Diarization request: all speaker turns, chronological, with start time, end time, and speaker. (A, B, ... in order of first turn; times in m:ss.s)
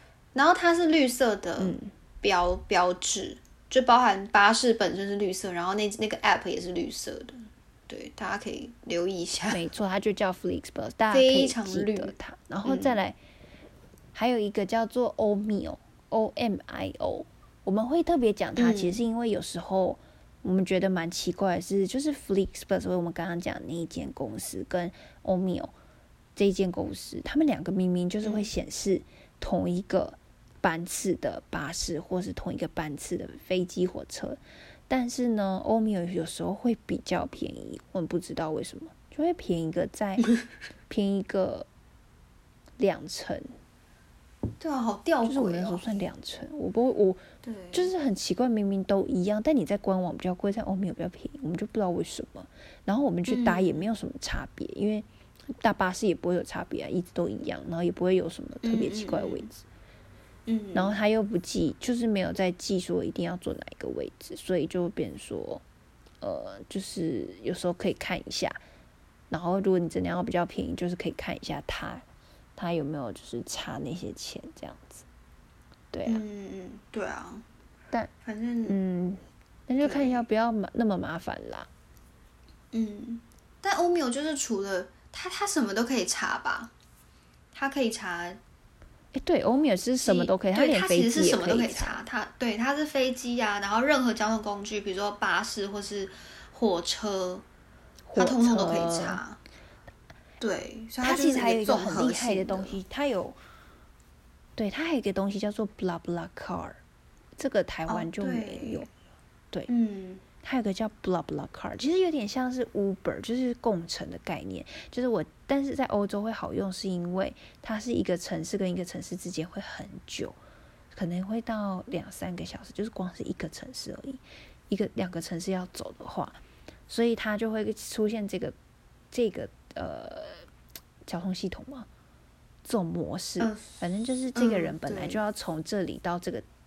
0:00.4-0:09.6 A
0:01.6-0:01.9 B
0:09.5-0:13.2 B
0:11.1-0:12.1 A
0:12.6-0:13.0 A
0:14.1-0:25.7 B
0:18.6-0:19.0 A
0:26.4-0:40.3 B
0:28.2-0:28.5 A
0:40.9-0:41.7 B
0:42.8-0:43.5 B
0:44.6-0:46.0 A
0:45.2-0:55.1 B
0:47.4-0:47.9 A
0:53.3-0:53.9 A
0:55.6-0:59.6 B
0:58.6-0:59.5 A
1:00.5-1:01.0 A
1:00.7-1:05.6 B
1:06.2-1:08.6 B
1:09.3-1:12.0 B
1:12.6-1:15.0 B
1:15.9-1:16.2 B
1:16.1-1:17.4 A
1:18.2-1:18.8 A
1:18.7-1:21.7 B
1:19.8-1:20.2 A
1:22.7-1:26.7 A
1:27.5-1:28.4 A
1:29.1-1:32.0 B
1:30.0-1:37.4 A
1:38.1-1:39.2 B
1:38.2-1:39.4 A
1:40.4-1:42.8 A
1:41.0-1:43.4 B
1:44.6-1:46.8 B
1:47.4-1:48.9 B
1:47.9-1:48.9 A
1:49.7-1:50.2 A
1:50.4-2:00.4 B
2:00.9-2:08.6 B
2:09.1-2:10.5 B
2:11.1-2:11.9 B
2:12.6-2:16.5 B
2:13.4-2:13.8 A
2:14.4-2:15.2 A